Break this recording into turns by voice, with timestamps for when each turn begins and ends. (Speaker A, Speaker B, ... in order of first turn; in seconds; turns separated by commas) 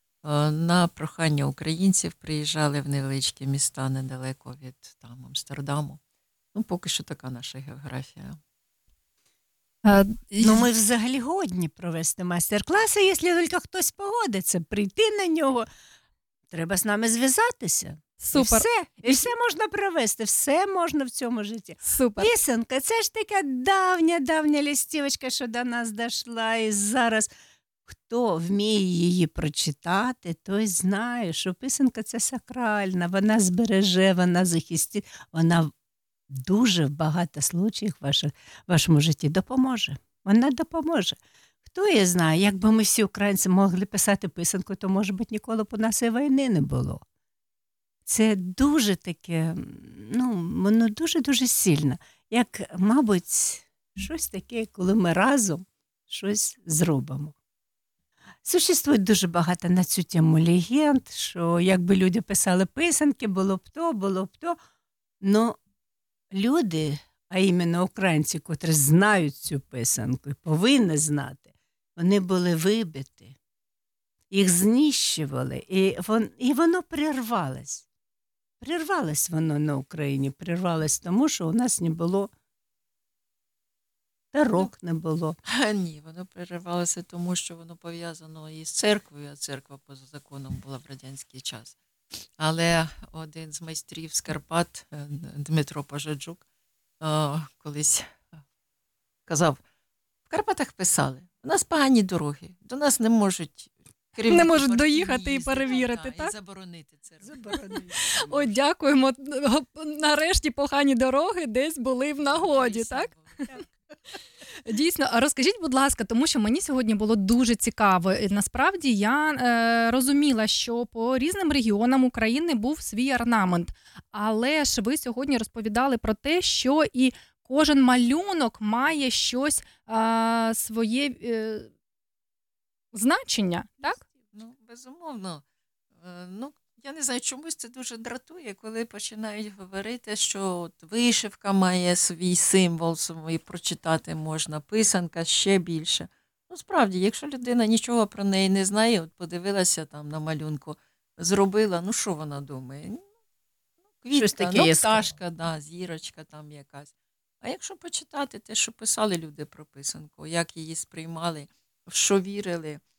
Speaker A: 0.2-6.0, Speaker A: 6.5-8.4, Speaker B: 9.8-10.7, Speaker C: 10.4-15.7, Speaker C: 16.5-27.3, Speaker B: 18.2-19.3, Speaker B: 21.8-22.3, Speaker C: 27.9-35.7, Speaker C: 36.3-47.0, Speaker C: 48.0-57.3, Speaker C: 58.4-64.6, Speaker C: 65.2-65.6, Speaker C: 66.3-73.3, Speaker C: 74.3-77.8, Speaker C: 78.6-82.3, Speaker C: 84.3-85.4, Speaker A: 85.5-91.8, Speaker A: 92.4-96.4, Speaker A: 97.0-98.3, Speaker A: 99.2-99.6, Speaker A: 100.3-108.5, Speaker B: 104.3-106.3, Speaker C: 107.2-108.1, Speaker B: 108.1-113.1, Speaker A: 112.1-113.6, Speaker B: 114.6-131.7, Speaker B: 132.9-134.0, Speaker A: 134.3-135.4, Speaker A: 136.0-153.0, Speaker A: 154.0-162.8, Speaker C: 154.1-155.1